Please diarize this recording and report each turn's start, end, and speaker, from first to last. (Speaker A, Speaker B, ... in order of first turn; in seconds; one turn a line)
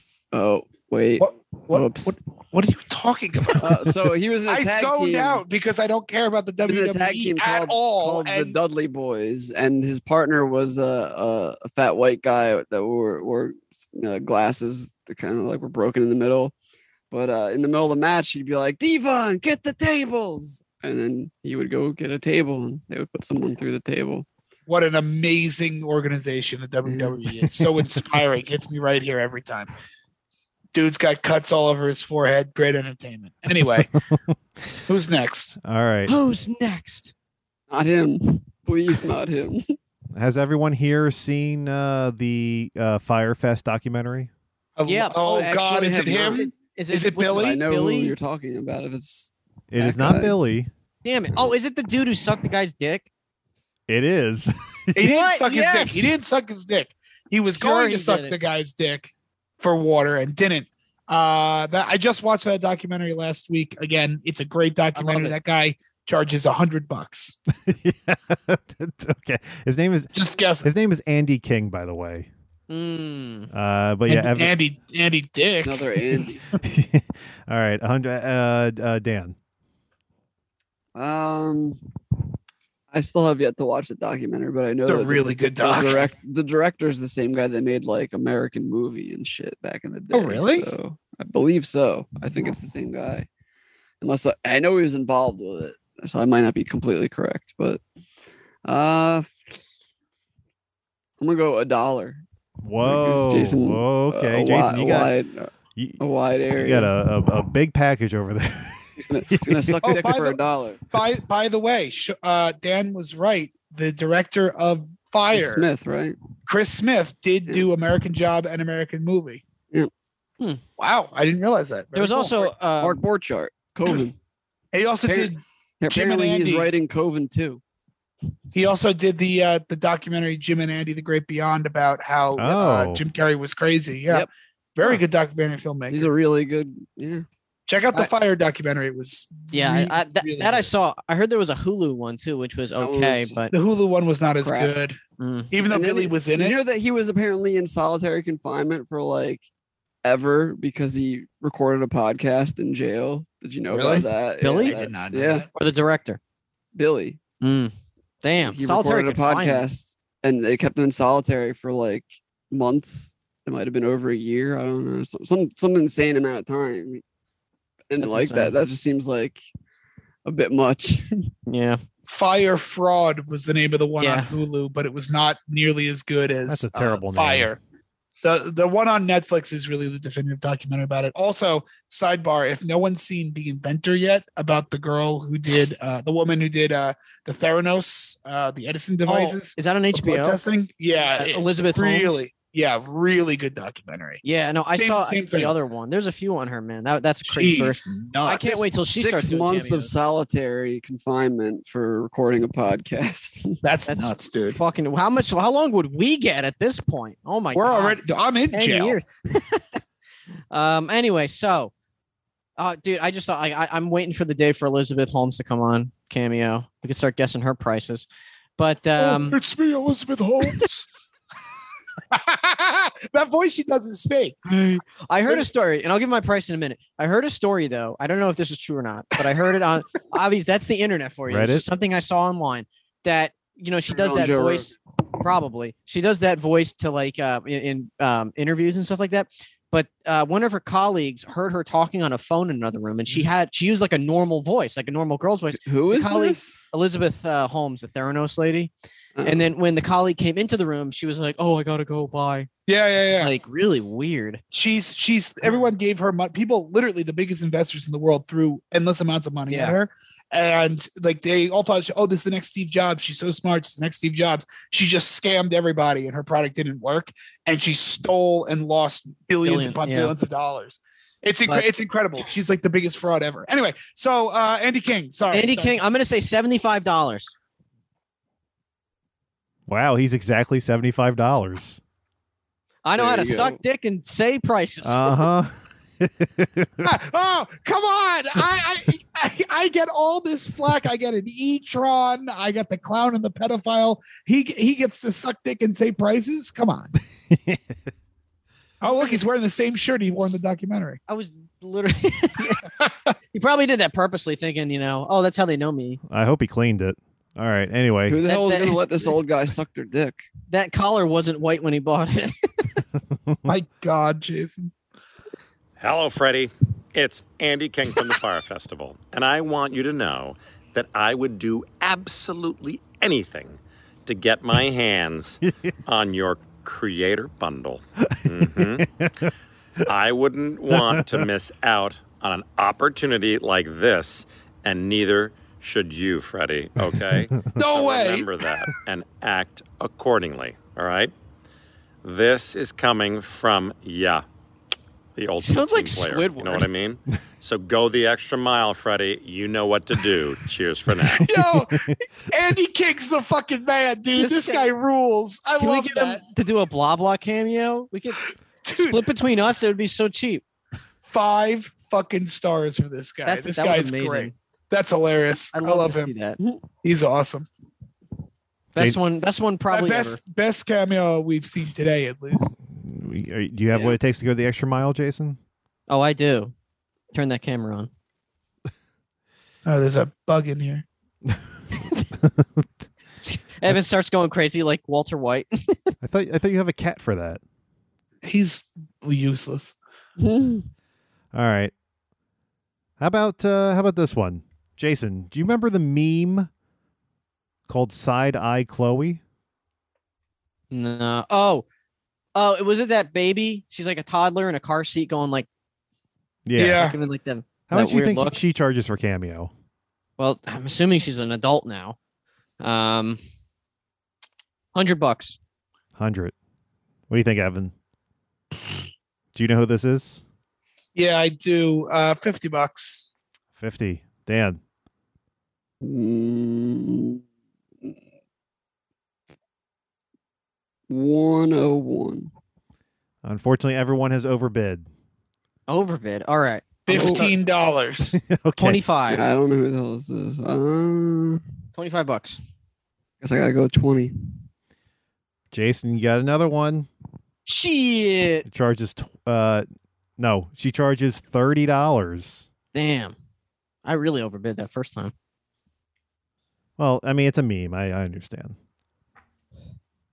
Speaker A: 0.3-2.1
Speaker B: 1.2-3.9
Speaker A: 3.6-5.4
Speaker B: 4.5-8.6
Speaker A: 6.6-16.5
Speaker A: 17.1-24.3
Speaker B: 24.7-29.7
Speaker A: 26.8-27.2
Speaker B: 30.7-33.9
Speaker B: 34.9-35.6
Speaker C: 35.6-36.2
Speaker D: 36.1-37.1
Speaker A: 37.7-39.6
Speaker C: 40.1-44.3
Speaker B: 44.8-47.6
Speaker D: 44.9-48.2
Speaker A: 45.4-46.5
Speaker A: 47.2-50.4
Speaker C: 49.7-50.7
Speaker D: 51.0-53.1
Speaker C: 53.9-55.1
Speaker B: 55.0-67.4
Speaker D: 55.1-56.1
Speaker D: 57.6-58.4
Speaker D: 65.0-65.4
Speaker C: 67.6-72.3
Speaker B: 70.1-70.7
Speaker D: 72.7-73.5
Speaker C: 73.5-74.5
Speaker B: 74.1-76.2
Speaker A: 75.6-76.4
Speaker C: 76.6-79.4
Speaker A: 81.0-81.8
Speaker A: 82.9-93.3
Speaker B: 84.8-86.1
Speaker B: 90.1-90.7
Speaker A: 94.0-97.8
Speaker A: 98.7-99.6
Speaker A: 101.2-102.2
Speaker C: 102.6-105.2
Speaker A: 102.8-106.9
Speaker C: 106.5-110.0
Speaker A: 109.0-110.8
Speaker B: 109.8-115.7
Speaker A: 115.3-116.2
Speaker B: 116.5-119.4
Speaker B: 120.8-122.5
Speaker D: 122.0-123.0
Speaker A: 122.8-124.2
Speaker B: 124.7-126.7
Speaker A: 125.0-127.6
Speaker B: 128.5-136.1
Speaker C: 132.4-133.1
Speaker A: 135.9-137.3
Speaker B: 137.7-140.7
Speaker D: 139.5-143.5
Speaker A: 142.8-143.4
Speaker B: 143.5-145.0
Speaker A: 144.4-144.7
Speaker D: 145.2-145.5
Speaker B: 145.5-146.6
Speaker A: 145.7-149.4
Speaker A: 150.0-155.5
Speaker B: 153.7-155.5
Speaker D: 154.4-154.8
Speaker D: 155.5-156.2
Speaker A: 156.8-157.2
Speaker D: 157.4-157.7
Speaker D: 158.2-159.6
Speaker A: 158.4-167.0
Speaker A: 167.9-169.4
Speaker D: 168.0-168.5
Speaker A: 170.2-171.3
Speaker D: 171.5-171.8
Speaker B: 172.1-177.6
Speaker D: 174.0-174.3
Speaker C: 176.5-177.5
Speaker B: 178.2-194.2
Speaker D: 189.1-190.4
Speaker D: 191.1-192.2
Speaker D: 194.2-199.9
Speaker B: 194.8-195.5
Speaker B: 197.3-198.7
Speaker A: 198.8-203.6
Speaker B: 203.6-204.6
Speaker D: 203.9-208.0
Speaker B: 207.5-209.0
Speaker D: 208.5-209.8
Speaker D: 210.5-211.7
Speaker D: 212.6-218.1
Speaker D: 218.6-219.4
Speaker B: 219.0-220.9
Speaker B: 222.1-225.5
Speaker D: 225.0-248.7
Speaker C: 231.3-231.7
Speaker A: 233.9-234.7
Speaker A: 245.6-246.6
Speaker A: 249.2-249.5
Speaker D: 249.2-252.5
Speaker B: 252.7-253.3
Speaker D: 253.2-254.4
Speaker B: 254.5-275.8
Speaker D: 259.5-259.8
Speaker D: 269.4-270.1
Speaker D: 275.3-277.3
Speaker C: 279.7-281.8
Speaker D: 282.9-285.2
Speaker A: 283.0-283.6
Speaker C: 284.8-286.9
Speaker B: 286.8-296.9
Speaker C: 297.3-297.6
Speaker B: 298.8-301.0
Speaker D: 298.9-299.3
Speaker D: 301.1-302.7
Speaker D: 303.3-306.0
Speaker C: 306.1-308.2
Speaker A: 308.1-310.2
Speaker D: 308.3-308.8
Speaker D: 310.5-312.4
Speaker B: 313.5-314.7
Speaker E: 315.8-328.9
Speaker C: 328.0-329.3
Speaker E: 329.9-341.1
Speaker C: 330.7-331.3
Speaker C: 336.8-337.5
Speaker B: 337.5-338.3
Speaker E: 342.0-344.2
Speaker E: 345.2-351.2
Speaker D: 345.4-346.7
Speaker C: 350.9-352.0
Speaker B: 351.2-356.2
Speaker D: 354.2-354.7
Speaker D: 355.6-358.2
Speaker B: 358.6-359.1
Speaker D: 358.8-360.4
Speaker B: 361.1-366.1
Speaker D: 363.2-364.3
Speaker D: 365.5-366.4
Speaker B: 366.8-367.5
Speaker D: 368.7-370.2
Speaker B: 369.7-372.5
Speaker C: 372.7-375.4
Speaker D: 375.9-376.5
Speaker D: 377.1-377.9
Speaker B: 379.6-380.9
Speaker C: 382.2-382.6
Speaker D: 383.2-385.9
Speaker C: 386.0-387.4
Speaker B: 388.2-389.8
Speaker A: 390.2-390.7
Speaker C: 391.3-391.7
Speaker C: 393.0-396.5
Speaker C: 397.7-399.2
Speaker D: 400.7-401.6
Speaker D: 402.4-405.5
Speaker C: 406.5-406.9
Speaker B: 406.6-407.0
Speaker D: 406.7-408.4
Speaker C: 407.7-409.5
Speaker D: 410.2-412.0
Speaker D: 412.6-413.2
Speaker D: 414.7-415.4
Speaker C: 416.0-416.4
Speaker C: 417.1-417.7
Speaker C: 419.3-420.2
Speaker B: 420.9-423.1
Speaker C: 423.6-424.6
Speaker A: 425.8-427.2
Speaker A: 430.9-432.3
Speaker C: 433.2-434.9
Speaker D: 435.7-436.7
Speaker B: 436.9-438.2
Speaker A: 436.9-437.3
Speaker C: 438.1-438.8
Speaker D: 438.6-439.2
Speaker A: 439.1-441.4
Speaker D: 441.8-442.4
Speaker A: 443.2-444.3
Speaker C: 445.5-446.9
Speaker D: 447.5-448.4
Speaker C: 448.5-449.7
Speaker C: 450.2-452.5
Speaker D: 452.7-453.1
Speaker D: 453.9-455.1
Speaker C: 456.8-458.6